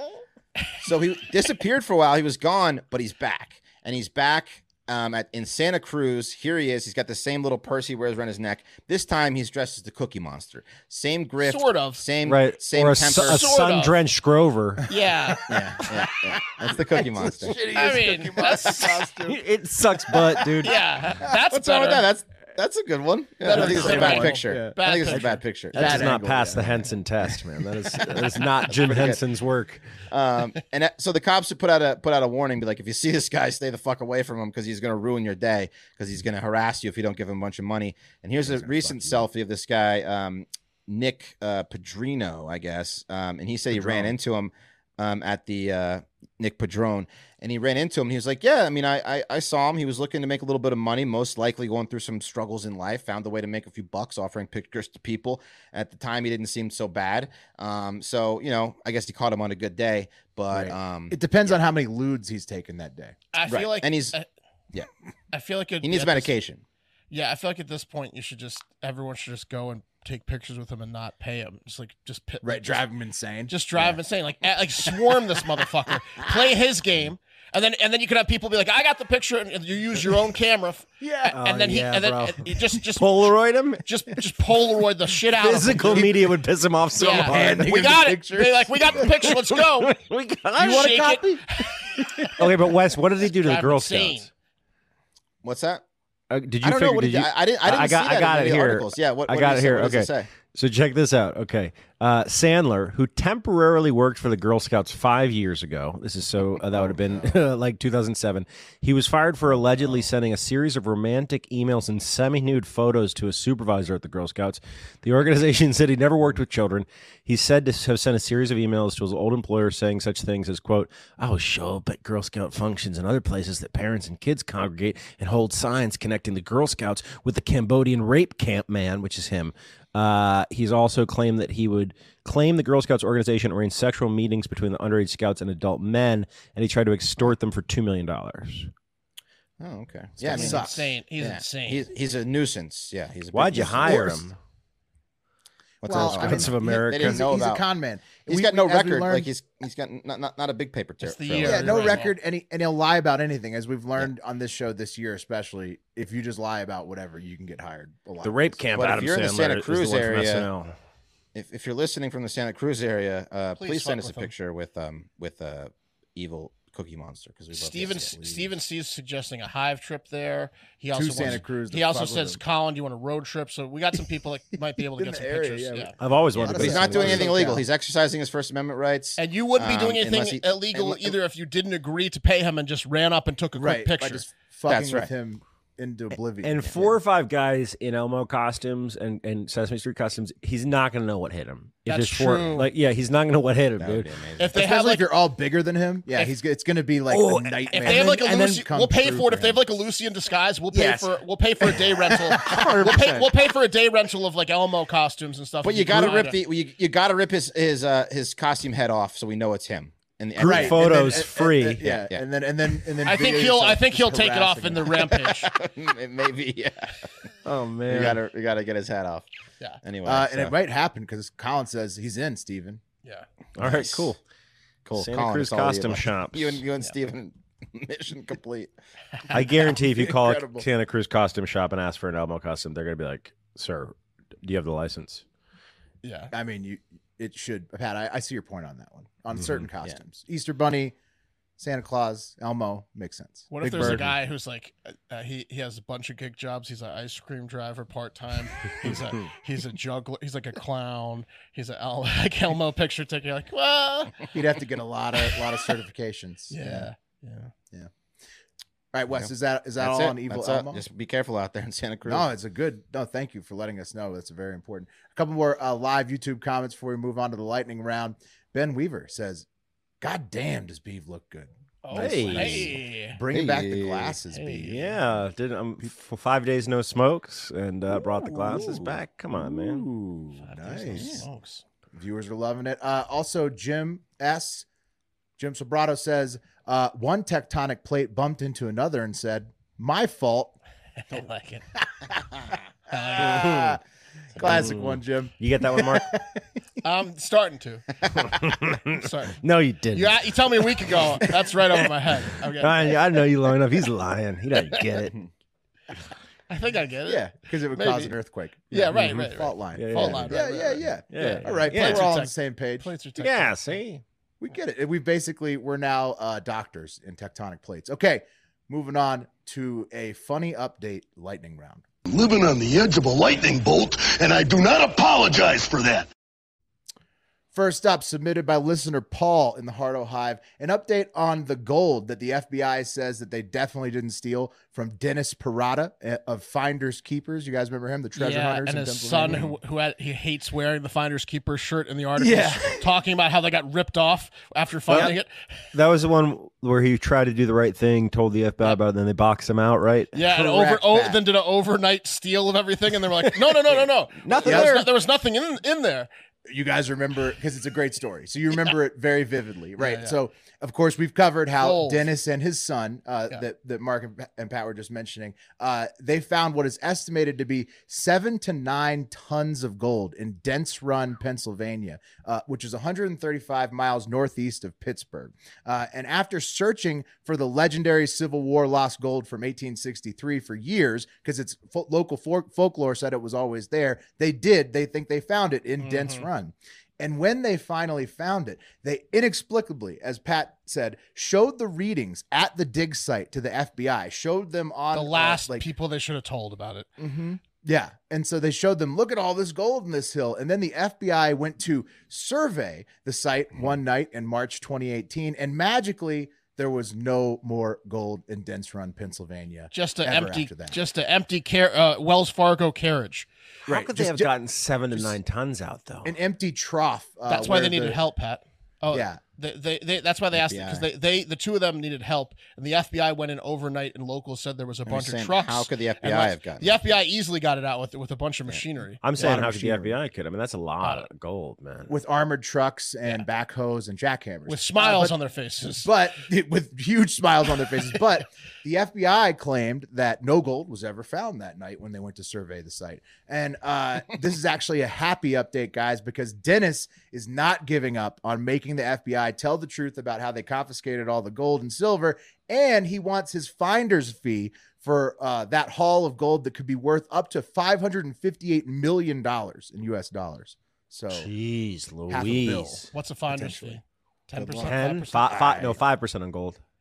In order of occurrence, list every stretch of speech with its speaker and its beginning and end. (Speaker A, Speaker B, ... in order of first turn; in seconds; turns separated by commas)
Speaker A: 0.8-13.5, Speaker B: 11.4-12.0, Speaker C: 12.3-14.9, Speaker B: 13.2-13.9, Speaker B: 14.9-15.5, Speaker A: 15.5-17.6, Speaker D: 17.0-19.4, Speaker B: 17.6-19.0, Speaker C: 19.2-20.8, Speaker D: 20.1-20.7, Speaker B: 20.6-22.1, Speaker A: 21.3-26.1, Speaker B: 23.4-25.4, Speaker D: 23.5-24.8, Speaker D: 25.7-26.9, Speaker C: 25.7-29.8, Speaker A: 28.7-29.2, Speaker A: 30.1-61.2, Speaker D: 38.4-39.3, Speaker D: 43.7-44.1, Speaker D: 60.5-63.2, Speaker B: 63.3-64.3, Speaker A: 63.5-64.2, Speaker B: 65.3-66.3, Speaker A: 65.8-66.6, Speaker B: 67.1-72.9, Speaker D: 72.4-73.9, Speaker B: 73.5-83.3, Speaker D: 81.0-81.4, Speaker C: 81.3-83.8, Speaker B: 83.8-86.1, Speaker C: 85.3-88.1, Speaker D: 85.8-86.1, Speaker B: 87.0-90.0, Speaker D: 87.2-89.1, Speaker C: 89.0-91.0, Speaker D: 90.6-91.4, Speaker B: 90.6-91.7, Speaker C: 92.2-94.3, Speaker B: 93.4-94.3, Speaker A: 95.4-95.8, Speaker C: 96.3-138.7, Speaker A: 96.6-100.3, Speaker A: 106.7-107.3, Speaker A: 139.6-140.7, Speaker D: 140.2-140.9, Speaker B: 140.3-141.9, Speaker A: 141.2-144.1, Speaker C: 143.3-144.4, Speaker D: 143.6-144.3, Speaker A: 145.8-147.6, Speaker D: 145.8-149.3, Speaker C: 145.9-147.3, Speaker A: 148.3-152.0, Speaker B: 151.0-152.2, Speaker D: 151.4-158.6, Speaker C: 158.2-160.7, Speaker A: 158.8-160.5, Speaker A: 161.3-168.5, Speaker B: 163.6-164.3, Speaker B: 167.5-175.9, Speaker D: 170.9-172.4, Speaker D: 174.8-177.7, Speaker C: 176.0-177.5, Speaker A: 176.4-181.2, Speaker B: 179.2-184.3, Speaker D: 183.6-187.0, Speaker A: 184.7-185.1, Speaker C: 186.4-194.1, Speaker B: 191.9-192.7, Speaker A: 193.8-194.6, Speaker B: 194.4-195.1, Speaker D: 194.5-199.6, Speaker C: 197.1-198.2, Speaker B: 197.7-206.4, Speaker D: 202.0-202.8, Speaker C: 202.5-203.3, Speaker A: 205.6-211.2, Speaker D: 210.4-215.2, Speaker C: 210.4-211.8, Speaker A: 211.8-212.2, Speaker B: 213.0-215.5, Speaker A: 215.3-217.1, Speaker C: 217.4-218.2, Speaker A: 217.9-219.3, Speaker A: 219.8-220.5, Speaker D: 220.1-222.8, Speaker A: 223.6-224.1, Speaker C: 223.6-224.2, Speaker A: 224.8-228.7, Speaker C: 224.9-226.6, Speaker C: 229.3-235.2, Speaker D: 229.4-230.7, Speaker B: 236.0-236.3, Speaker D: 236.3-241.0, Speaker C: 239.4-239.6, Speaker D: 241.6-244.1, Speaker B: 243.5-254.3, Speaker C: 243.8-244.1, Speaker D: 254.3-256.9, Speaker B: 256.5-257.5, Speaker D: 258.9-260.8, Speaker A: 259.1-262.3, Speaker D: 262.1-269.5, Speaker D: 270.0-275.2, Speaker B: 271.8-273.2, Speaker C: 271.9-272.7, Speaker A: 273.3-274.2, Speaker B: 274.3-274.9, Speaker C: 274.6-279.9, Speaker D: 277.9-281.2, Speaker B: 280.4-281.6, Speaker D: 281.9-284.7, Speaker D: 285.4-290.6, Speaker B: 291.1-291.6, Speaker B: 292.9-293.7, Speaker D: 293.1-293.8, Speaker C: 293.3-293.8, Speaker D: 294.4-296.4, Speaker C: 294.4-296.1, Speaker B: 296.8-297.8, Speaker C: 298.2-300.6, Speaker B: 298.9-299.4, Speaker B: 299.9-302.9, Speaker C: 302.6-305.1, Speaker B: 306.5-308.1, Speaker D: 307.1-312.9, Speaker B: 308.7-313.8, Speaker C: 308.9-312.1, Speaker C: 313.2-314.0, Speaker D: 314.4-321.8, Speaker E: 322.1-326.1, Speaker D: 327.5-339.5, Speaker B: 338.2-345.3, Speaker D: 342.2-342.9, Speaker C: 344.9-345.1, Speaker C: 345.7-350.1, Speaker B: 350.1-356.1, Speaker D: 350.3-351.2, Speaker C: 354.2-354.9, Speaker D: 354.4-354.8, Speaker D: 356.5-395.7, Speaker B: 359.8-360.2, Speaker B: 361.6-362.1, Speaker B: 385.8-386.3, Speaker B: 394.9-396.9, Speaker D: 397.0-410.8, Speaker B: 409.7-413.3, Speaker C: 413.7-416.1, Speaker D: 413.7-414.3, Speaker D: 416.1-418.0, Speaker B: 417.3-429.0, Speaker D: 418.9-419.2, Speaker A: 420.3-420.9, Speaker A: 424.9-426.8, Speaker C: 429.0-431.9, Speaker D: 429.2-430.0, Speaker B: 430.8-431.1, Speaker D: 431.9-435.1, Speaker B: 434.5-435.9, Speaker D: 435.8-461.3, Speaker C: 461.1-462.9, Speaker D: 462.1-463.8, Speaker B: 462.9-465.4, Speaker A: 464.4-464.7, Speaker C: 464.6-466.6, Speaker D: 465.2-465.8